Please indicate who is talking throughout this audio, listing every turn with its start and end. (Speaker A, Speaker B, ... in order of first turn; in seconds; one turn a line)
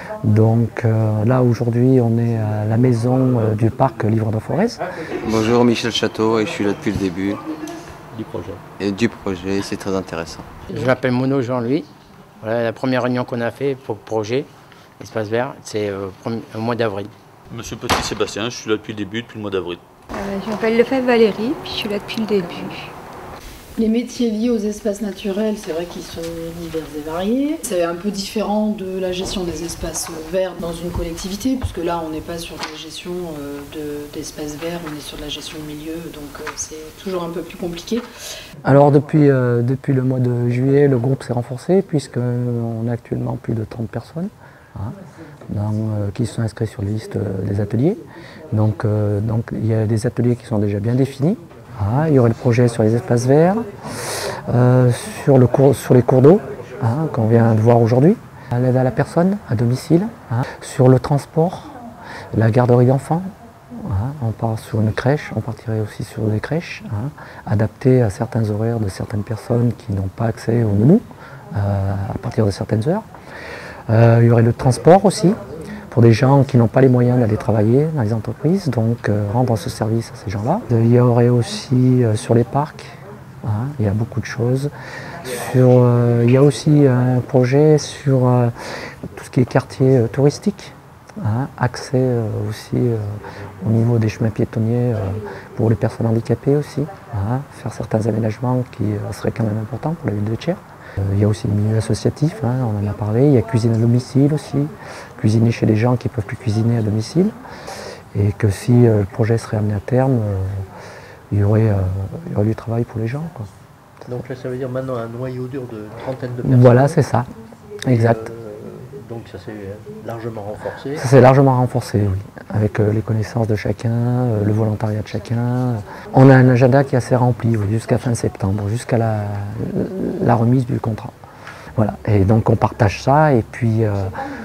Speaker A: 0.2-4.8
Speaker B: 5.2-7.4
Speaker B: 8.8-10.5
Speaker C: 10.7-11.9
Speaker C: 12.4-14.5
Speaker C: 15.0-17.1
Speaker D: 17.6-19.8
Speaker E: 20.1-22.9
Speaker F: 23.8-38.0
Speaker A: 38.6-45.0
Speaker A: 45.5-48.0
Speaker A: 48.5-53.6
Speaker A: 54.2-61.7
Speaker A: 62.3-73.0
Speaker A: 73.9-75.4
Speaker A: 75.9-84.7
Speaker A: 85.2-88.5
Speaker A: 89.1-107.4
Speaker A: 108.1-110.6
Speaker A: 111.3-113.5
Speaker G: 114.1-117.0
Speaker A: 116.4-117.3
Speaker A: 117.8-118.3
Speaker G: 117.8-121.0
Speaker A: 120.9-131.1
Speaker A: 131.8-134.2